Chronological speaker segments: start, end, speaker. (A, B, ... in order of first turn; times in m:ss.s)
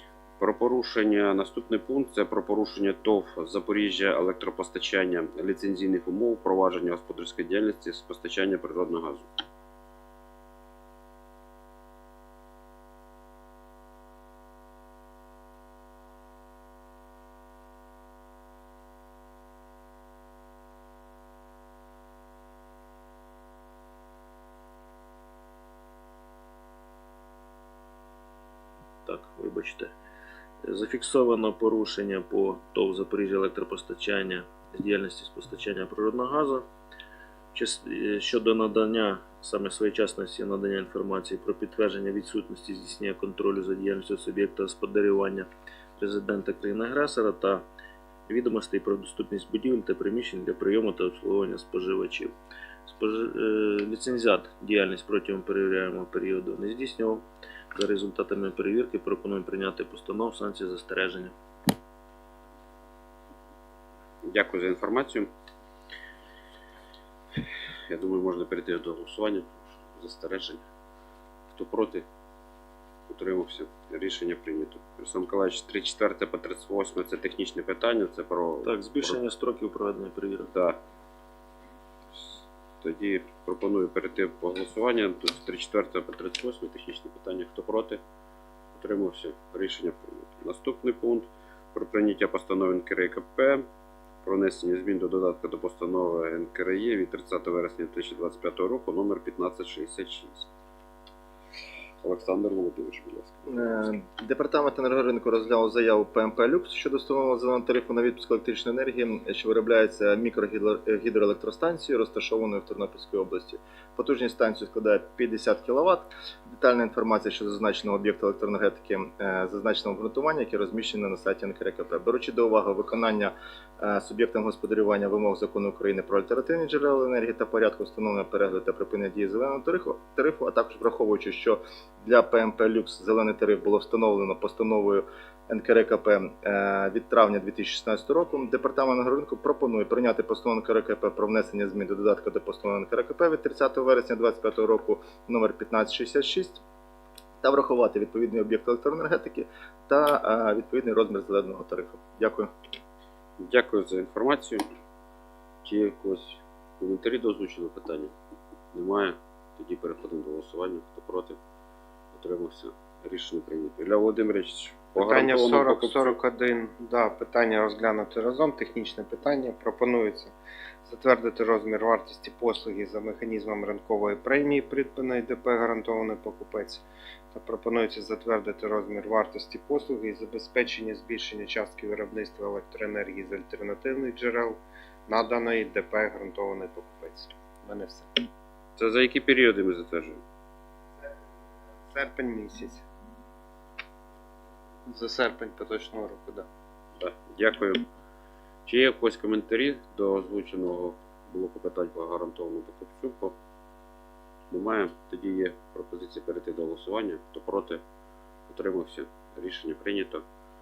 0:00.4-0:09.3 A
0:29.0-0:29.9 B
0:30.6-0:36.6 B
0:37.5-0:47.6 B
0:48.3-0:52.3 B
0:52.9-1:01.3 B
1:04.2-1:05.3 A
1:07.9-1:10.6 A
1:11.5-1:12.0 A
1:13.1-1:19.2 A
1:18.6-1:20.5 B
1:20.5-1:20.8 A
1:22.1-1:28.0 A
1:28.7-1:33.6 A
1:34.2-1:40.5 A
1:42.0-1:43.8 A
1:43.5-2:26.6 C
2:27.4-2:32.5 C
2:33.4-2:34.6 A
2:35.6-2:38.1 A
2:38.7-2:41.4 A
2:42.1-2:46.1 A
2:45.0-3:08.2 D
3:08.8-3:10.2 A
3:11.9-3:12.8 D
3:14.9-3:16.5 D
3:17.0-3:17.8 A
3:18.6-3:23.4 A
3:24.5-3:27.8 A
3:28.5-3:30.2 A